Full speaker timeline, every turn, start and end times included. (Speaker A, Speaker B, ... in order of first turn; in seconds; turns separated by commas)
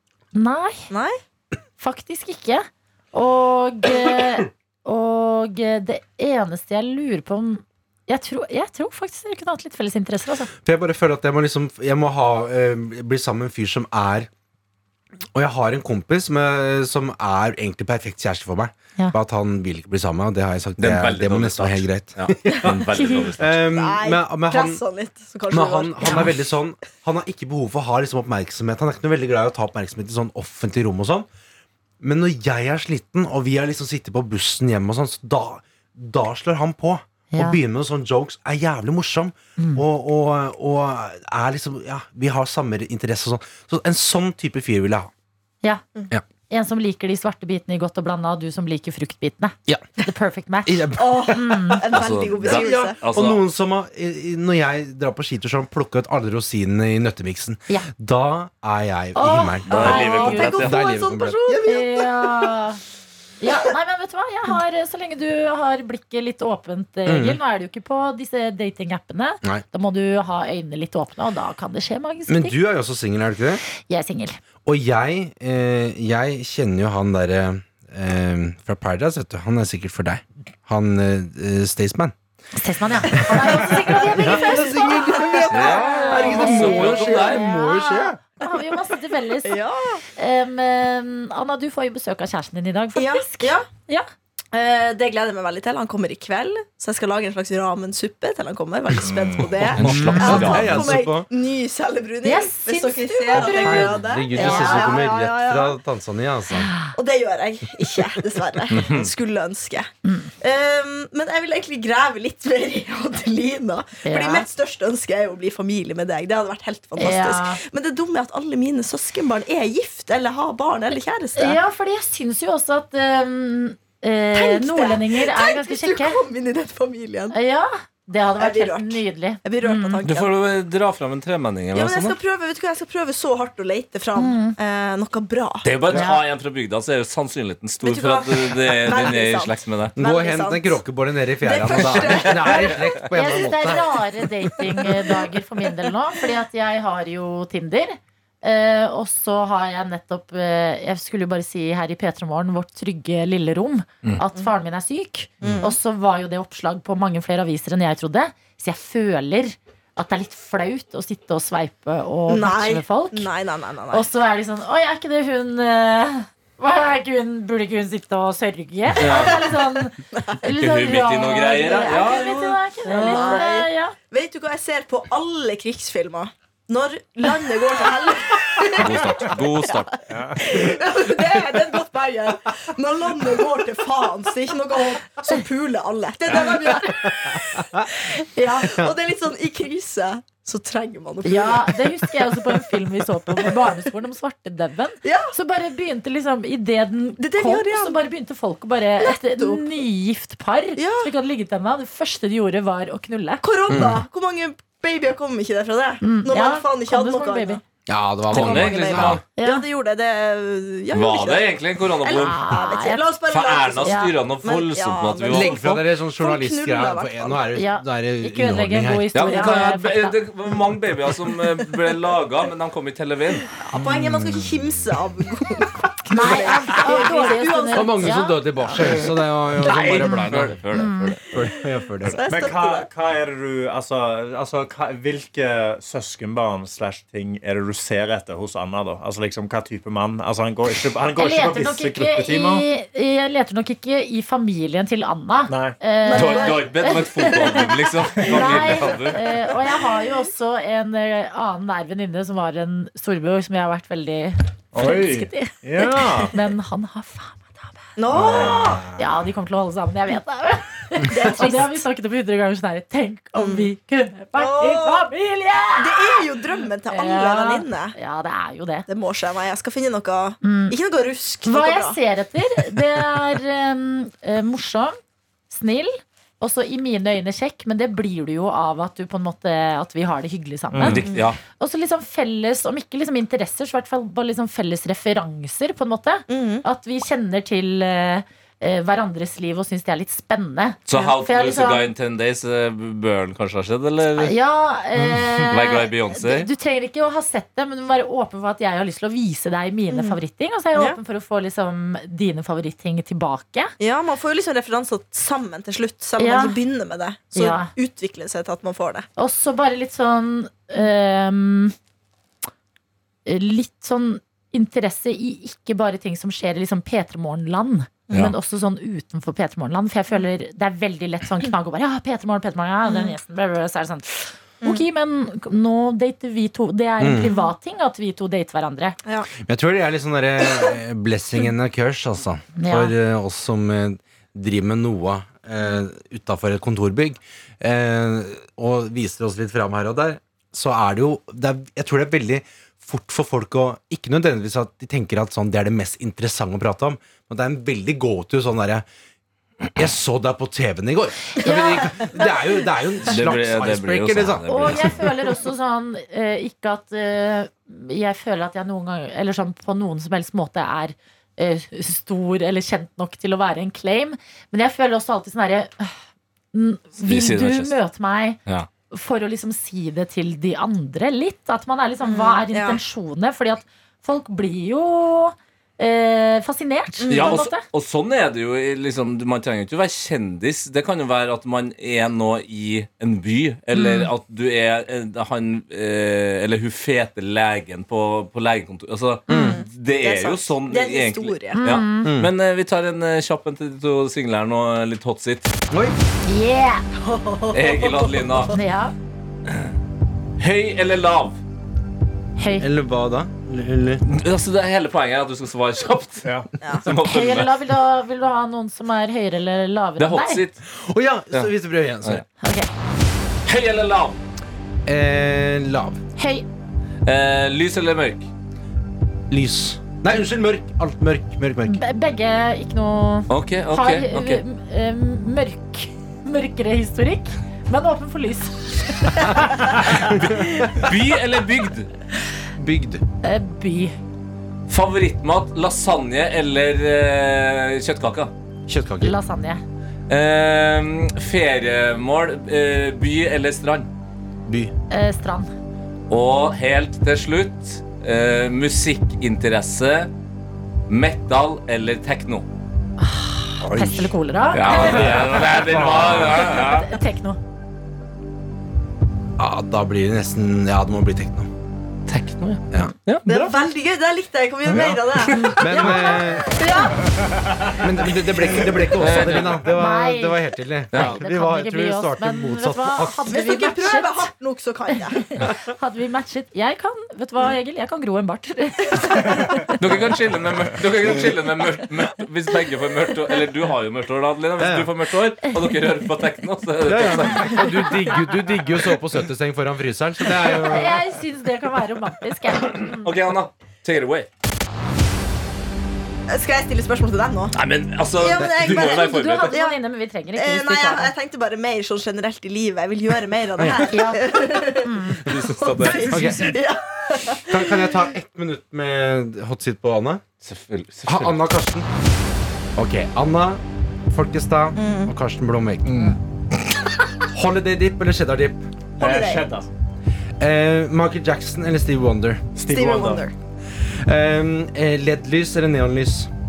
Speaker A: 0.3-0.9, Speaker B: 0.9-1.2, Speaker A: 1.8-10.5, Speaker C: 10.6-14.3, Speaker C: 15.3-24.8, Speaker D: 20.8-23.6, Speaker B: 22.7-26.4, Speaker C: 25.5-31.3, Speaker A: 26.0-26.3, Speaker C: 32.0-45.1, Speaker A: 37.3-37.6, Speaker A: 39.6-39.8, Speaker A: 46.5-51.8, Speaker C: 50.6-61.8, Speaker B: 51.0-53.0, Speaker D: 51.9-53.4, Speaker A: 59.1-60.6, Speaker D: 59.7-60.8, Speaker B: 59.7-62.5, Speaker A: 61.6-62.8, Speaker A: 63.4-72.6, Speaker C: 67.1-67.4, Speaker C: 72.3-73.6, Speaker A: 73.8-74.3, Speaker C: 74.7-82.1, Speaker A: 82.6-89.6, Speaker C: 83.0-88.2, Speaker B: 83.3-85.8, Speaker D: 85.5-87.5, Speaker B: 86.5-87.0, Speaker B: 89.4-90.0, Speaker A: 90.2-94.1, Speaker B: 93.0-93.7, Speaker B: 94.5-105.8, Speaker E: 99.1-99.4, Speaker D: 99.7-100.9, Speaker C: 99.8-101.3, Speaker A: 99.9-100.5, Speaker A: 102.2-105.0, Speaker C: 103.3-106.7, Speaker A: 106.6-106.9, Speaker B: 106.9-121.6, Speaker D: 108.7-109.1, Speaker A: 110.0-110.3, Speaker A: 114.0-114.5, Speaker A: 117.0-117.6, Speaker A: 121.4-126.2, Speaker B: 124.3-127.4, Speaker A: 127.3-130.0, Speaker B: 128.4-130.4, Speaker D: 130.1-132.2, Speaker B: 131.7-135.7, Speaker A: 134.2-134.6, Speaker D: 135.6-140.0, Speaker A: 135.9-136.2, Speaker B: 137.8-140.8, Speaker C: 140.0-143.9, Speaker B: 141.4-142.9, Speaker D: 142.0-142.6, Speaker A: 143.1-163.3, Speaker B: 155.4-155.8, Speaker B: 162.3-164.1, Speaker A: 163.9-173.9, Speaker D: 169.0-169.4, Speaker B: 169.0-170.4, Speaker D: 170.4-173.3, Speaker B: 171.6-172.2, Speaker B: 172.9-179.7, Speaker D: 178.8-180.0, Speaker B: 180.2-187.7, Speaker A: 186.3-187.0, Speaker A: 188.0-188.8, Speaker B: 188.6-192.8, Speaker A: 191.2-203.4, Speaker B: 193.4-193.7, Speaker B: 195.0-195.3, Speaker B: 197.2-198.0, Speaker B: 199.0-199.8, Speaker B: 200.8-201.1, Speaker B: 203.4-207.6, Speaker C: 203.7-204.0, Speaker A: 206.0-207.6, Speaker C: 207.9-209.2, Speaker B: 208.3-217.5, Speaker D: 208.3-209.2, Speaker A: 209.4-209.7, Speaker D: 210.9-212.4, Speaker A: 212.1-213.1, Speaker D: 213.3-215.8, Speaker A: 213.8-214.2, Speaker C: 215.2-219.1, Speaker A: 217.6-220.2, Speaker D: 219.1-223.5, Speaker B: 223.6-228.1, Speaker A: 226.1-228.4, Speaker C: 227.7-232.2, Speaker D: 229.6-231.2, Speaker A: 230.7-231.1, Speaker B: 232.0-232.9, Speaker E: 232.3-242.7, Speaker A: 241.2-247.6, Speaker E: 245.5-245.8, Speaker B: 246.1-247.3, Speaker D: 246.1-249.3, Speaker E: 248.1-249.0, Speaker A: 248.2-257.8, Speaker E: 254.7-256.4, Speaker B: 258.0-258.9, Speaker A: 258.8-266.2, Speaker B: 261.0-261.7, Speaker B: 263.4-263.7, Speaker B: 264.4-265.1, Speaker B: 265.8-268.0, Speaker A: 266.9-268.9, Speaker B: 268.9-272.0, Speaker A: 270.4-270.8, Speaker A: 271.4-274.9, Speaker A: 275.5-291.9, Speaker E: 280.7-281.1, Speaker D: 280.8-281.4, Speaker B: 286.3-286.6, Speaker D: 290.9-294.4, Speaker A: 294.2-303.7, Speaker D: 295.4-296.5, Speaker B: 299.9-300.2, Speaker B: 303.8-309.1, Speaker A: 306.2-306.6, Speaker A: 307.3-307.7, Speaker A: 309.2-311.7, Speaker A: 313.3-329.0, Speaker B: 322.9-323.2, Speaker C: 327.0-327.3, Speaker C: 329.4-348.9, Speaker A: 332.6-332.9, Speaker C: 349.7-355.1, Speaker A: 351.4-352.7, Speaker D: 353.1-355.1, Speaker A: 354.5-366.0, Speaker A: 366.5-368.4, Speaker D: 367.0-367.8, Speaker A: 368.9-377.6, Speaker B: 372.0-372.8, Speaker B: 377.0-377.4, Speaker D: 377.1-395.5, Speaker A: 383.7-384.1, Speaker A: 389.3-389.6, Speaker C: 389.3-389.6, Speaker B: 389.3-391.6, Speaker A: 391.6-392.1, Speaker C: 392.0-392.3, Speaker C: 395.7-396.0, Speaker A: 396.3-396.8, Speaker B: 397.0-398.5, Speaker D: 397.5-398.5, Speaker A: 398.5-398.9, Speaker D: 400.4-401.4, Speaker A: 402.4-402.7, Speaker C: 402.6-404.0, Speaker D: 404.1-407.5, Speaker E: 406.2-406.5, Speaker B: 406.6-406.9, Speaker A: 406.9-410.4, Speaker D: 410.0-410.6, Speaker C: 410.6-412.2, Speaker A: 412.4-412.7, Speaker D: 413.4-414.2, Speaker C: 414.9-416.0, Speaker A: 416.2-416.5, Speaker D: 417.1-418.3, Speaker C: 419.3-421.8, Speaker A: 421.6-429.5, Speaker D: 423.3-424.4, Speaker C: 429.2-430.9, Speaker D: 430.0-431.9, Speaker C: 432.6-433.0, Speaker A: 433.2-433.9, Speaker D: 434.7-438.3, Speaker C: 438.7-439.2, Speaker A: 439.0-439.6, Speaker D: 440.1-443.9, Speaker C: 444.5-444.7, Speaker A: 444.9-445.5, Speaker D: 446.1-450.1, Speaker D: 450.9-452.5, Speaker A: 453.0-455.4, Speaker C: 453.6-454.1, Speaker D: 454.5-456.9, Speaker C: 454.7-456.6, Speaker A: 456.2-457.4, Speaker C: 459.4-461.5, Speaker D: 462.1-463.3, Speaker B: 463.3-467.1, Speaker E: 463.3-463.6, Speaker A: 465.3-466.9, Speaker C: 465.6-466.6, Speaker C: 467.7-473.3, Speaker D: 469.0-469.6, Speaker A: 469.6-474.3, Speaker D: 470.9-471.2, Speaker B: 473.3-475.2, Speaker A: 474.9-479.7, Speaker D: 479.8-487.8, Speaker C: 484.6-484.9, Speaker C: 486.8-491.0, Speaker A: 490.5-493.1, Speaker D: 492.9-494.3, Speaker B: 496.3-497.6, Speaker D: 497.5-499.6, Speaker B: 498.2-499.8, Speaker A: 498.7-501.1, Speaker B: 500.3-507.9, Speaker C: 503.6-503.9, Speaker A: 503.9-505.3, Speaker D: 505.2-506.2, Speaker C: 506.1-506.6, Speaker C: 507.4-510.2, Speaker D: 510.4-511.4, Speaker C: 511.1-511.9, Speaker C: 512.8-516.1, Speaker B: 514.8-515.1, Speaker D: 515.9-516.2, Speaker C: 517.2-518.6, Speaker B: 519.0-519.5, Speaker E: 519.0-519.7, Speaker C: 520.4-522.4, Speaker E: 522.5-523.3, Speaker B: 522.6-523.3, Speaker C: 524.1-526.3